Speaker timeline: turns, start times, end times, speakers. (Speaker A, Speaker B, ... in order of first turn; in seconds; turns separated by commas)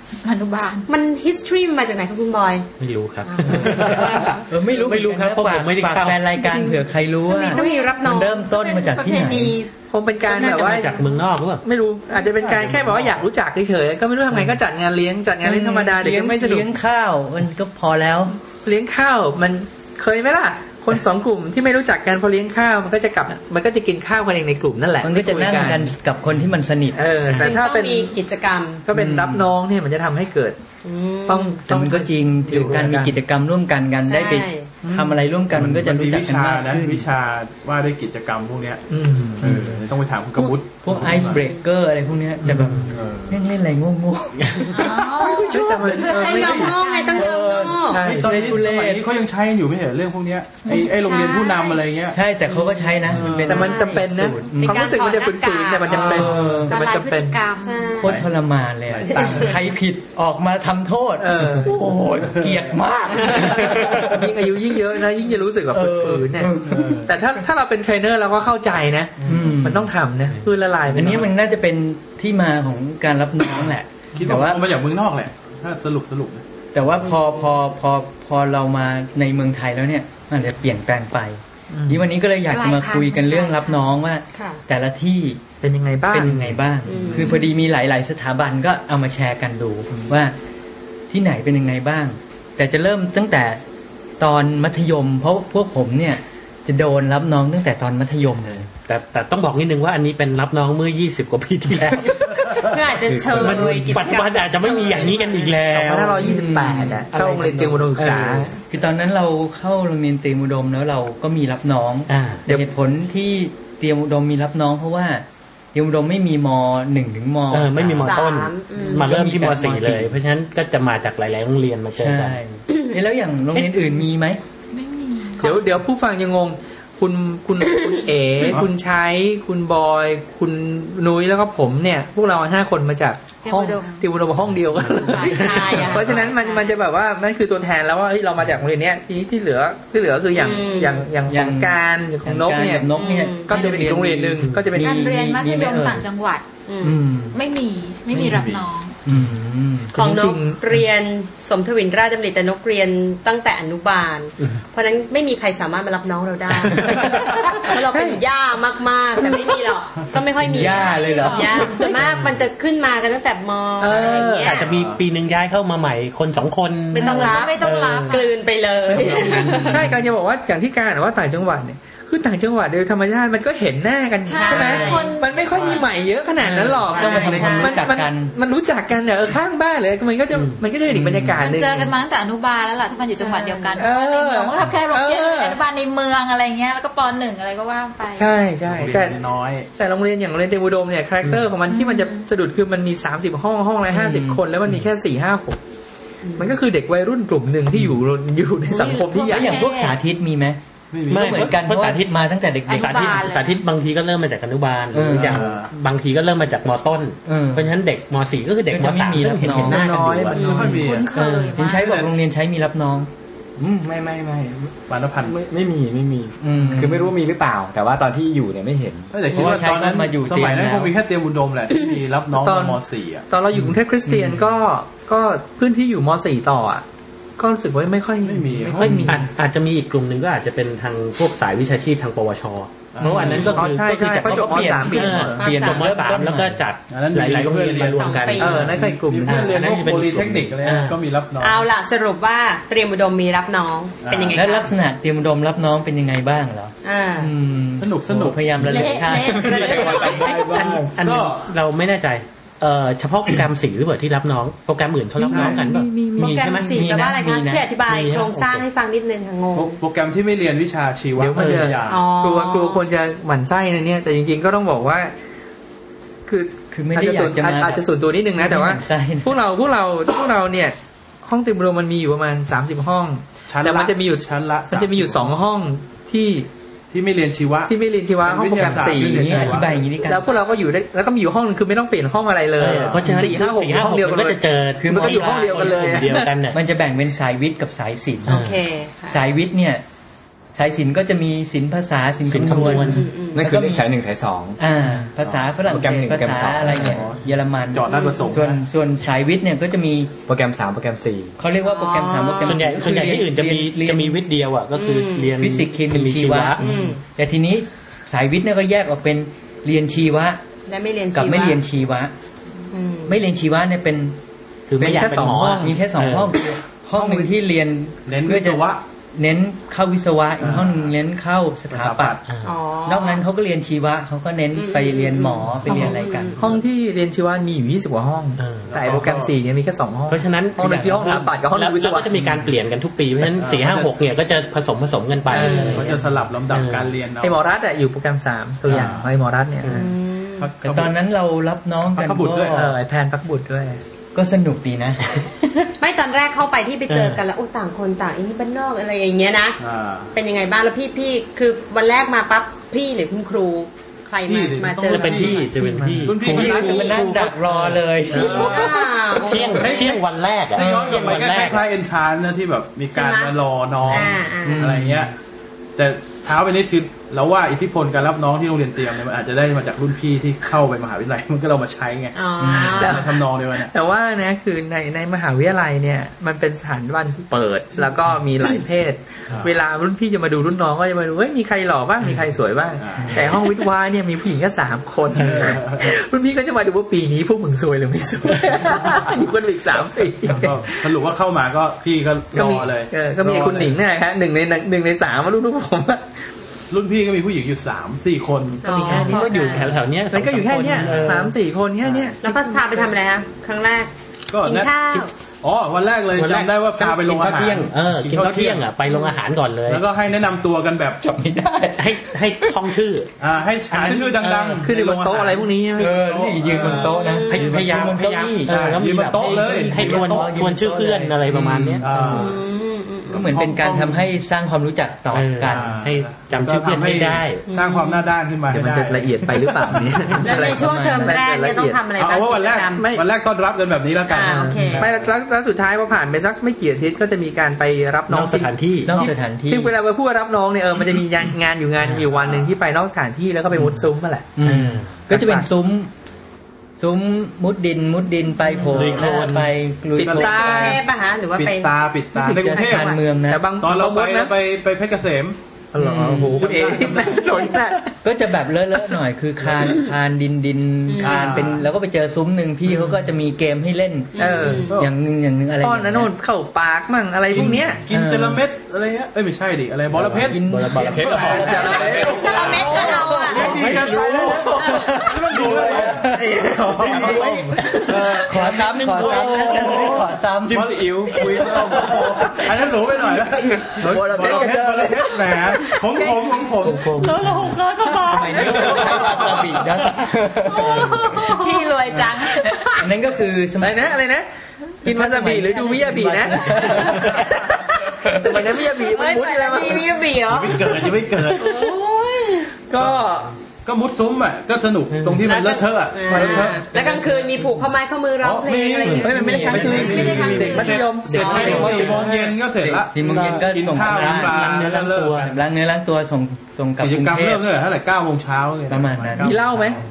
Speaker A: 0.2-0.9, Speaker B: 0.9-2.7, Speaker C: 2.8-6.3, Speaker B: 3.2-4.4, Speaker D: 3.6-9.6, Speaker B: 6.4-6.8, Speaker B: 7.3-8.4, Speaker A: 7.3-9.7, Speaker E: 9.9-11.0, Speaker C: 10.3-11.6, Speaker E: 11.6-16.7, Speaker F: 12.5-13.2, Speaker D: 15.4-18.4, Speaker E: 18.6-25.9, Speaker D: 25.0-27.0, Speaker E: 27.0-28.1, Speaker B: 27.0-28.9, Speaker E: 28.9-30.6, Speaker D: 28.9-29.5, Speaker B: 30.8-31.6, Speaker E: 31.3-33.2, Speaker D: 31.7-37.1, Speaker B: 34.0-34.7, Speaker E: 34.8-35.2, Speaker F: 35.5-41.4, Speaker E: 38.9-39.6, Speaker D: 39.4-39.7, Speaker D: 40.8-45.0, Speaker F: 42.5-43.4, Speaker C: 42.5-42.8, Speaker A: 44.7-47.8, Speaker E: 45.1-46.7, Speaker F: 46.0-46.7, Speaker B: 46.0-48.0, Speaker D: 47.1-49.1, Speaker E: 47.7-48.5, Speaker F: 47.9-52.2, Speaker A: 50.7-51.8, Speaker D: 52.1-54.8, Speaker B: 52.5-53.1, Speaker F: 53.1-53.5, Speaker E: 53.5-57.4, Speaker A: 53.5-54.0, Speaker A: 54.6-58.0, Speaker B: 54.6-55.4, Speaker D: 55.9-56.7, Speaker B: 57.6-58.1, Speaker D: 58.0-64.6, Speaker F: 58.9-59.5, Speaker B: 59.1-59.6, Speaker E: 61.2-61.8, Speaker F: 62.2-62.7, Speaker B: 63.2-63.5, Speaker E: 63.5-71.3, Speaker D: 65.7-67.1, Speaker F: 66.6-67.1, Speaker F: 69.2-69.6, Speaker D: 69.2-69.9, Speaker D: 71.0-74.6, Speaker F: 74.2-76.4, Speaker D: 76.7-85.4, Speaker B: 77.0-77.5, Speaker E: 81.7-82.0, Speaker A: 82.5-83.8, Speaker B: 84.3-84.6, Speaker E: 85.6-86.3, Speaker D: 86.1-90.3, Speaker C: 86.2-86.6, Speaker B: 86.9-87.4, Speaker D: 91.1-93.6, Speaker D: 94.2-98.7, Speaker C: 98.9-102.7, Speaker B: 102.0-105.5, Speaker G: 103.1-104.0, Speaker C: 103.3-106.5, Speaker E: 105.6-108.6, Speaker D: 106.2-107.0, Speaker C: 107.1-108.5, Speaker D: 108.7-118.3, Speaker C: 112.1-112.4, Speaker C: 117.5-122.4, Speaker B: 118.0-119.0, Speaker D: 118.8-120.2, Speaker D: 121.9-124.4, Speaker A: 124.7-125.6, Speaker E: 125.4-142.9, Speaker F: 128.4-128.7, Speaker A: 133.4-134.1, Speaker A: 135.1-136.8, Speaker B: 135.1-136.3, Speaker C: 135.5-135.8, Speaker B: 140.3-141.1, Speaker D: 141.3-146.1, Speaker B: 143.0-143.5, Speaker E: 143.5-145.1, Speaker A: 143.5-143.8, Speaker A: 144.8-146.5, Speaker B: 146.7-147.0, Speaker D: 146.8-147.4, Speaker A: 147.3-149.0, Speaker F: 148.1-148.6, Speaker D: 149.1-149.9, Speaker E: 149.9-150.6, Speaker B: 149.9-164.7, Speaker E: 157.7-158.2, Speaker D: 160.5-161.7, Speaker A: 160.6-161.8, Speaker C: 161.9-162.4, Speaker E: 163.8-164.6, Speaker C: 164.4-168.1, Speaker F: 164.6-165.0, Speaker A: 166.9-168.4, Speaker B: 166.9-169.9, Speaker C: 168.9-169.9, Speaker F: 168.9-169.7, Speaker E: 169.6-181.9, Speaker A: 174.3-175.9, Speaker B: 174.3-175.8, Speaker C: 176.5-176.8, Speaker A: 176.8-177.8, Speaker D: 176.9-178.3, Speaker B: 177.0-177.6, Speaker D: 180.9-181.4, Speaker A: 181.4-188.3, Speaker B: 183.1-183.8, Speaker E: 183.8-185.6, Speaker E: 188.2-189.2, Speaker F: 188.7-189.7, Speaker E: 189.8-195.6, Speaker A: 191.7-192.3, Speaker D: 193.9-194.4, Speaker E: 196.4-199.6, Speaker A: 198.7-200.0, Speaker D: 199.3-203.3, Speaker F: 200.9-201.6, Speaker C: 201.1-202.2, Speaker A: 202.7-203.7, Speaker C: 202.7-210.8, Speaker D: 204.9-205.6, Speaker F: 205.1-205.7, Speaker D: 207.3-207.8, Speaker D: 208.7-209.8, Speaker E: 209.5-210.8, Speaker B: 210.4-210.8, Speaker F: 210.4-211.1, Speaker A: 210.6-212.0, Speaker D: 211.1-213.1, Speaker G: 213.6-219.2, Speaker F: 214.9-215.4, Speaker D: 216.4-217.1, Speaker F: 219.1-223.3, Speaker D: 219.3-220.9, Speaker E: 222.4-226.8, Speaker E: 227.4-229.3, Speaker F: 228.2-229.1, Speaker C: 228.8-241.0, Speaker F: 232.9-234.5, Speaker E: 233.1-235.4, Speaker B: 233.2-233.6, Speaker D: 234.2-236.6, Speaker B: 235.4-236.0, Speaker F: 236.9-241.7, Speaker B: 237.8-238.8, Speaker E: 238.4-239.5, Speaker B: 241.4-244.7, Speaker F: 244.0-244.5, Speaker D: 244.3-249.8, Speaker B: 246.8-247.3, Speaker F: 247.8-248.6, Speaker A: 248.7-250.2, Speaker B: 248.8-250.3, Speaker G: 249.3-251.0, Speaker E: 250.1-250.8, Speaker F: 250.7-251.5, Speaker C: 250.9-257.0, Speaker D: 255.2-256.1, Speaker F: 255.3-255.6, Speaker B: 256.2-259.8, Speaker D: 256.7-257.7, Speaker C: 257.9-258.6, Speaker F: 259.5-262.1, Speaker E: 261.2-265.1, Speaker B: 261.9-262.8, Speaker E: 266.3-276.5, Speaker D: 266.7-267.9, Speaker D: 268.4-269.4, Speaker F: 273.5-275.3, Speaker F: 276.9-279.8, Speaker E: 277.7-286.3, Speaker D: 278.6-280.3, Speaker C: 282.6-286.6, Speaker F: 282.6-283.3, Speaker D: 284.8-288.5, Speaker B: 288.3-289.2, Speaker C: 288.3-288.6, Speaker D: 289.1-289.8, Speaker D: 290.6-293.9, Speaker C: 292.3-293.1, Speaker B: 292.4-293.4, Speaker G: 293.3-294.6, Speaker D: 294.6-300.1, Speaker F: 295.2-295.6, Speaker G: 295.7-297.0, Speaker F: 296.6-298.6, Speaker B: 297.9-298.3, Speaker G: 300.3-301.4, Speaker D: 301.4-304.2, Speaker B: 301.6-302.6, Speaker C: 302.4-306.6, Speaker B: 304.8-305.4, Speaker D: 305.4-310.4, Speaker B: 306.6-307.0, Speaker B: 310.7-311.6, Speaker D: 311.1-312.1, Speaker B: 312.7-313.2, Speaker D: 313.1-314.2, Speaker C: 314.7-316.4, Speaker E: 314.8-315.7, Speaker D: 314.8-322.2, Speaker E: 317.0-317.3, Speaker F: 318.1-318.8, Speaker F: 320.4-320.8, Speaker F: 321.7-322.2, Speaker C: 322.3-322.5, Speaker B: 322.4-323.2, Speaker D: 322.9-326.4, Speaker B: 324.5-326.5, Speaker E: 325.7-332.1, Speaker C: 328.4-328.7, Speaker F: 328.7-329.3, Speaker C: 330.1-336.9, Speaker D: 330.6-331.2, Speaker F: 333.3-334.0, Speaker E: 335.3-336.0, Speaker B: 335.3-335.9, Speaker F: 335.4-337.4, Speaker E: 337.2-339.9, Speaker F: 338.7-339.1, Speaker C: 339.6-339.9, Speaker B: 339.7-340.6, Speaker F: 340.4-340.9, Speaker D: 340.6-342.8, Speaker F: 341.9-342.7, Speaker E: 342.5-343.8, Speaker D: 344.1-345.3, Speaker B: 345.8-349.6, Speaker C: 346.9-347.2, Speaker F: 349.6-350.1, Speaker B: 350.1-355.5, Speaker F: 354.2-357.1, Speaker C: 354.8-357.8, Speaker E: 355.6-356.1, Speaker D: 356.2-358.8, Speaker B: 356.4-356.9, Speaker F: 358.1-365.1, Speaker B: 358.1-359.9, Speaker C: 359.2-361.6, Speaker D: 360.6-361.1, Speaker B: 362.9-363.3, Speaker B: 363.9-364.7, Speaker D: 363.9-365.1, Speaker F: 365.8-373.7, Speaker B: 372.1-373.2, Speaker D: 372.4-372.9, Speaker E: 372.7-373.1, Speaker E: 373.6-390.9, Speaker F: 382.8-383.3, Speaker F: 385.2-385.9, Speaker F: 390.3-393.8, Speaker E: 392.3-396.2, Speaker F: 396.7-398.6, Speaker B: 398.6-399.7, Speaker E: 398.6-402.9, Speaker C: 398.9-401.3, Speaker B: 402.2-405.1, Speaker F: 404.3-408.7, Speaker C: 406.1-409.8, Speaker B: 408.9-409.2, Speaker F: 409.7-411.0, Speaker D: 411.0-412.5, Speaker C: 411.8-413.1, Speaker F: 413.2-420.3, Speaker C: 413.7-414.7, Speaker E: 414.6-416.0, Speaker D: 415.8-422.3, Speaker B: 416.5-417.5, Speaker C: 417.3-422.2, Speaker F: 421.8-422.4, Speaker B: 422.1-423.4, Speaker D: 423.1-425.7, Speaker F: 423.1-424.1, Speaker C: 425.1-427.4, Speaker F: 425.5-430.2, Speaker B: 427.5-428.1, Speaker E: 428.5-431.8, Speaker B: 430.2-432.9, Speaker D: 430.2-431.2, Speaker F: 432.0-435.1, Speaker E: 432.7-433.0, Speaker B: 434.1-434.8, Speaker E: 434.2-444.3, Speaker C: 438.1-439.0, Speaker D: 438.9-439.7, Speaker F: 442.1-442.6, Speaker D: 444.4-445.9, Speaker C: 444.4-444.9, Speaker E: 445.1-445.5, Speaker D: 446.8-450.8, Speaker C: 448.7-449.5, Speaker E: 450.0-450.8, Speaker F: 450.0-450.8, Speaker B: 450.1-453.0, Speaker F: 451.4-453.0, Speaker D: 452.2-453.4, Speaker E: 453.3-454.3, Speaker F: 453.6-455.4, Speaker E: 455.7-457.9, Speaker D: 455.8-456.4, Speaker F: 455.9-457.6, Speaker D: 458.0-466.1, Speaker B: 460.9-461.5, Speaker F: 461.0-461.6, Speaker B: 464.2-464.8, Speaker E: 464.2-464.7, Speaker E: 465.6-467.8, Speaker F: 467.3-486.9, Speaker D: 467.9-468.4, Speaker C: 469.9-471.4, Speaker D: 470.2-471.9, Speaker G: 470.8-479.9, Speaker E: 471.3-472.9, Speaker B: 472.1-473.6, Speaker D: 472.7-473.8, Speaker D: 474.6-481.6, Speaker E: 477.6-477.9, Speaker C: 478.9-479.2, Speaker G: 480.5-482.4, Speaker E: 483.8-485.2, Speaker G: 484.2-484.7, Speaker C: 486.6-489.0, Speaker E: 488.1-488.8, Speaker D: 488.1-491.1, Speaker G: 488.2-489.7, Speaker C: 489.8-491.2, Speaker A: 490.8-492.7, Speaker B: 490.8-492.9, Speaker D: 492.8-493.9, Speaker E: 493.6-494.3, Speaker E: 494.8-500.0, Speaker D: 494.8-497.3, Speaker B: 498.8-502.5, Speaker F: 500.3-501.7, Speaker E: 502.7-503.3, Speaker F: 503.6-506.7, Speaker C: 504.9-505.3, Speaker B: 505.2-509.8, Speaker E: 506.1-506.6, Speaker F: 508.2-515.4, Speaker C: 508.8-512.0, Speaker E: 509.0-512.4, Speaker D: 509.1-510.4, Speaker A: 509.4-510.9, Speaker B: 511.2-512.0, Speaker D: 511.4-511.9, Speaker D: 512.6-514.4, Speaker C: 513.0-515.3, Speaker D: 515.2-517.4, Speaker F: 516.8-519.8, Speaker D: 518.7-519.4, Speaker E: 519.2-519.8